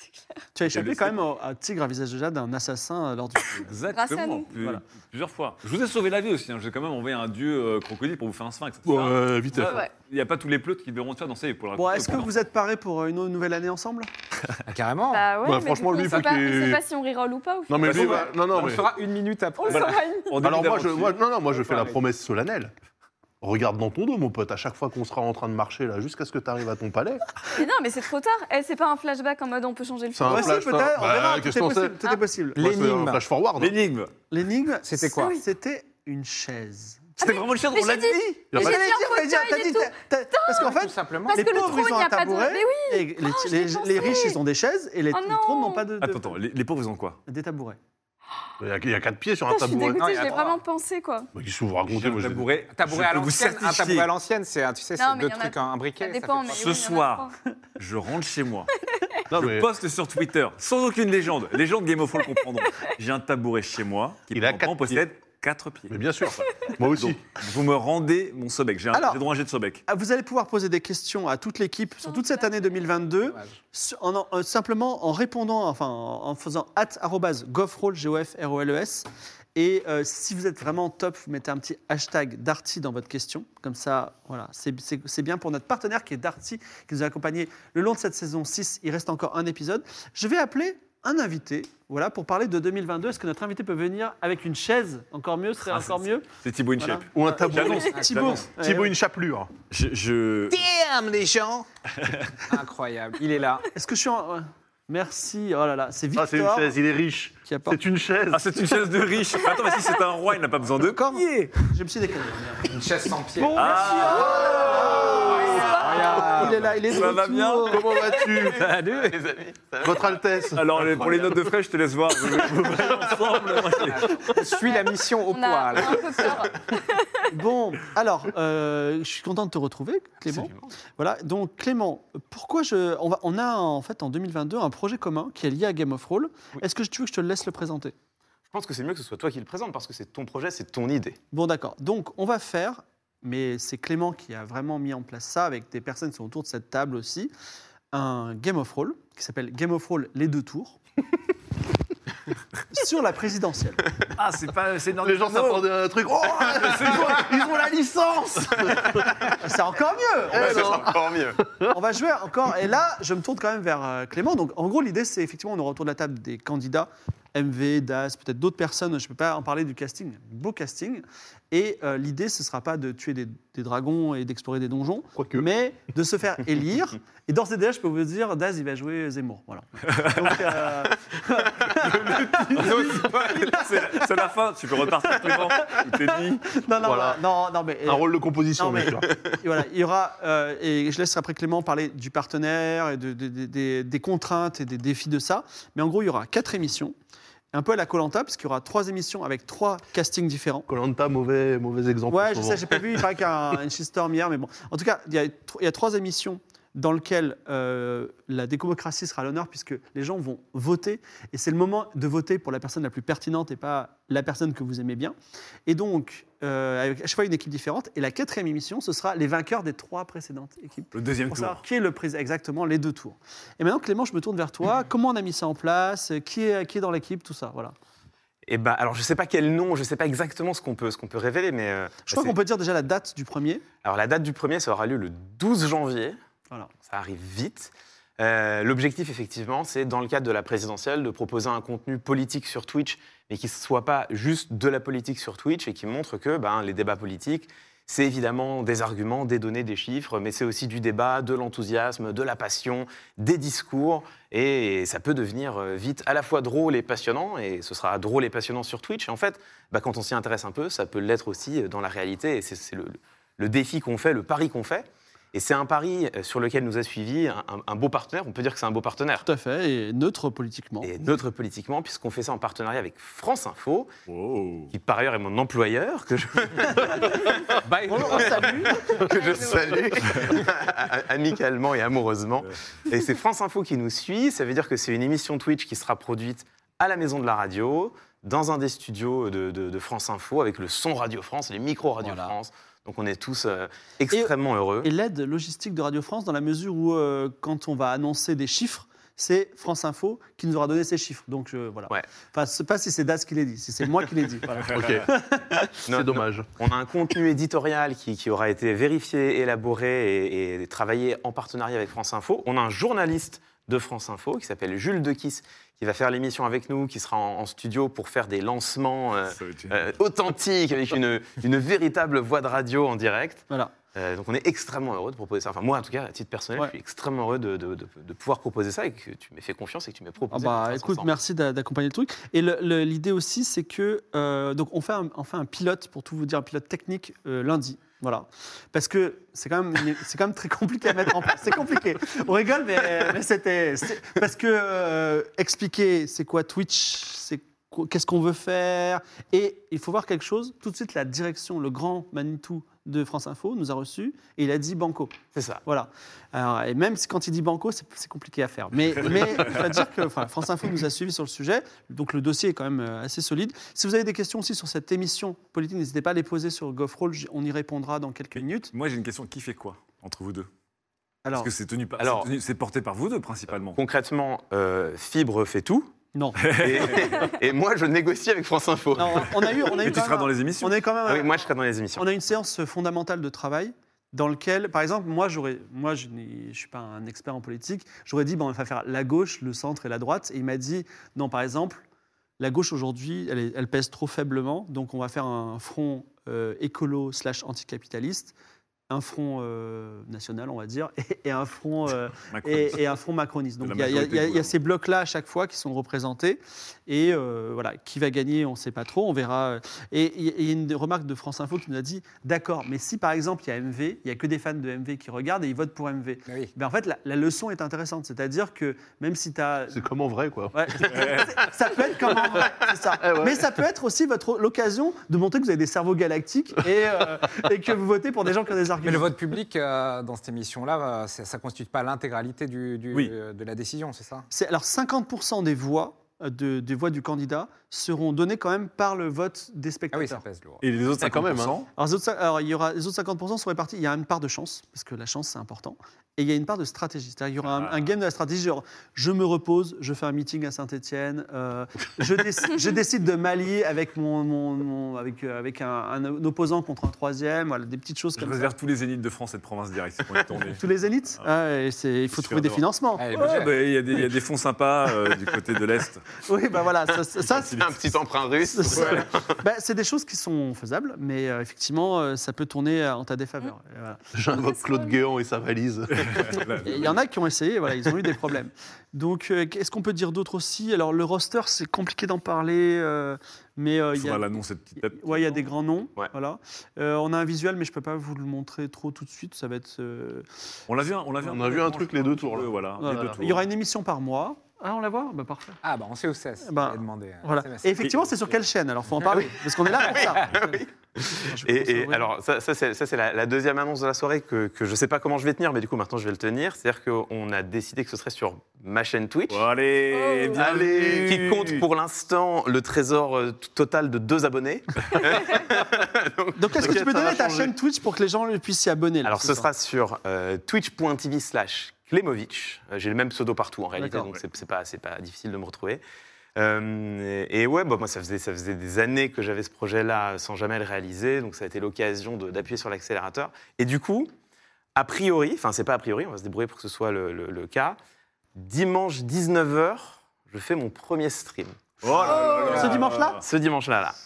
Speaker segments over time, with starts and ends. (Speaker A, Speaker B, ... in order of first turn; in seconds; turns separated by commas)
Speaker A: 0.6-3.7, Speaker B: 0.7-1.2, Speaker B: 3.6-12.3, Speaker C: 3.9-4.5, Speaker D: 8.9-9.8, Speaker C: 9.7-9.9, Speaker A: 11.8-14.1, Speaker E: 14.7-15.3, Speaker C: 15.1-18.2, Speaker D: 15.4-16.8, Speaker D: 17.7-18.9, Speaker E: 17.8-19.9, Speaker B: 17.9-18.2, Speaker C: 19.6-20.4, Speaker B: 19.7-21.2, Speaker D: 20.4-22.7, Speaker E: 21.6-21.9, Speaker D: 23.4-27.4, Speaker C: 27.5-30.6, Speaker D: 30.1-32.0, Speaker A: 30.3-32.6, Speaker D: 32.5-33.7, Speaker E: 32.6-33.2, Speaker B: 33.6-34.1, Speaker A: 34.3-37.3, Speaker E: 34.8-35.4, Speaker B: 37.2-38.4, Speaker C: 37.2-40.7, Speaker D: 38.5-38.8, Speaker A: 38.5-46.4, Speaker E: 40.5-41.7, Speaker C: 41.3-44.4, Speaker C: 45.1-45.9, Speaker B: 46.0-47.2, Speaker A: 47.3-47.8, Speaker D: 48.6-50.1, Speaker C: 49.5-51.3, Speaker E: 50.0-50.6, Speaker D: 51.3-52.5, Speaker B: 51.9-54.1, Speaker E: 52.7-56.7, Speaker C: 55.0-57.3, Speaker B: 56.5-58.7, Speaker D: 59.3-59.7, Speaker B: 59.3-66.0, Speaker D: 64.3-65.0, Speaker D: 65.9-67.2, Speaker B: 66.9-69.8, Speaker A: 68.9-69.2, Speaker A: 69.9-96.2, Speaker C: 72.1-72.7, Speaker B: 95.7-98.5, Speaker A: 96.8-99.0, Speaker D: 97.1-99.5, Speaker E: 98.0-98.4, Speaker B: 99.7-100.6, Speaker E: 100.5-101.7, Speaker B: 102.0-102.3, Speaker E: 102.5-103.7, Speaker A: 103.8-106.7, Speaker D: 106.2-108.4, Speaker A: 107.5-107.8, Speaker B: 108.3-111.7, Speaker A: 110.8-112.7, Speaker E: 112.7-113.8, Speaker A: 113.4-117.9, Speaker B: 113.6-114.5, Speaker D: 114.0-115.7, Speaker E: 115.0-116.8, Speaker C: 115.3-116.2, Speaker B: 116.8-117.9, Speaker D: 117.7-118.6, Speaker F: 118.3-120.2, Speaker E: 118.5-119.2, Speaker D: 119.8-121.3, Speaker B: 120.5-124.3, Speaker E: 123.7-126.4, Speaker C: 124.4-127.3, Speaker A: 127.3-137.9, Speaker F: 130.3-130.7, Speaker F: 138.5-141.2, Speaker A: 141.3-147.3, Speaker A: 147.9-150.8, Speaker A: 152.7-153.9, Speaker B: 154.2-155.7, Speaker D: 155.0-159.1, Speaker B: 156.3-157.4, Speaker F: 158.1-159.4, Speaker A: 159.4-160.7, Speaker D: 160.3-161.7, Speaker F: 160.3-161.4, Speaker A: 161.7-184.0, Speaker D: 175.2-175.5, Speaker B: 179.9-180.7, Speaker B: 182.4-186.6, Speaker E: 182.6-183.5, Speaker A: 185.3-185.8, Speaker A: 186.5-196.9, Speaker D: 186.8-187.2, Speaker D: 187.9-189.1, Speaker F: 189.1-189.4, Speaker A: 197.5-200.7, Speaker D: 200.7-202.8, Speaker A: 202.1-215.2, Speaker A: 215.7-227.7, Speaker B: 220.9-221.6, Speaker F: 228.5-232.4, Speaker A: 232.1-233.6, Speaker F: 233.8-236.2, Speaker F: 236.8-269.2, Speaker A: 269.2-270.9, Speaker F: 270.8-273.9, Speaker B: 274.1-274.7, Speaker F: 274.7-277.4, Speaker E: 277.6-278.5, Speaker A: 277.9-279.0, Speaker F: 278.2-278.4, Speaker F: 278.9-294.9, Speaker C: 279.0-279.8, Speaker D: 279.1-280.5, Speaker A: 292.0-292.3, Speaker A: 294.1-305.5, Speaker B: 304.6-305.0, Speaker D: 304.7-305.1, Speaker F: 305.9-331.1, Speaker D: 305.9-306.5, Speaker B: 319.3-319.8, Speaker A: 330.3-368.7, Speaker F: 355.3-355.6, Speaker B: 358.9-359.6, Speaker B: 368.7-370.5, Speaker A: 371.2-371.5, Speaker B: 371.3-373.8, Speaker F: 372.0-372.3, Speaker F: 373.7-375.9, Speaker A: 376.1-376.4, Speaker B: 376.4-377.2, Speaker F: 376.5-379.4, Speaker A: 379.0-391.9, Speaker B: 379.4-380.8, Speaker F: 381.1-382.1, Speaker A: 392.4-398.4, Speaker A: 398.9-419.8, Speaker B: 402.3-402.9, Speaker B: 403.6-404.5, Speaker E: 416.3-416.5, Speaker D: 419.7-421.2, Speaker A: 420.5-429.1, Speaker B: 420.9-421.3, Speaker D: 422.4-423.6, Speaker E: 428.8-434.3, Speaker A: 434.3-440.2, Speaker E: 439.9-440.6, Speaker B: 440.6-441.7, Speaker D: 441.0-441.6, Speaker A: 441.8-458.5, Speaker B: 447.5-447.8, Speaker B: 458.2-460.6, Speaker A: 460.5-463.1, Speaker B: 462.2-466.1, Speaker E: 463.0-463.6, Speaker A: 466.2-467.6, Speaker B: 467.3-467.6, Speaker F: 467.4-469.4, Speaker A: 468.5-474.0, Speaker B: 468.8-469.0, Speaker D: 474.1-476.9, Speaker C: 474.3-475.0, Speaker B: 475.9-476.9, Speaker A: 476.6-490.3, Speaker B: 483.9-485.4, Speaker B: 490.7-493.4, Speaker D: 491.2-493.2, Speaker A: 492.8-495.6, Speaker E: 495.6-498.3, Speaker A: 496.4-500.6, Speaker F: 499.1-509.4, Speaker A: 501.1-502.1, Speaker B: 509.3-511.6, Speaker C: 509.9-510.6, Speaker D: 510.4-511.1, Speaker F: 510.4-516.4, Speaker A: 516.4-519.5, Speaker D: 516.5-517.5, Speaker F: 519.0-525.8, Speaker A: 523.8-524.1, Speaker F: 526.4-534.1, Speaker F: 534.8-537.8, Speaker F: 538.4-541.8, Speaker B: 541.8-543.2, Speaker A: 542.5-543.2, Speaker F: 543.2-544.0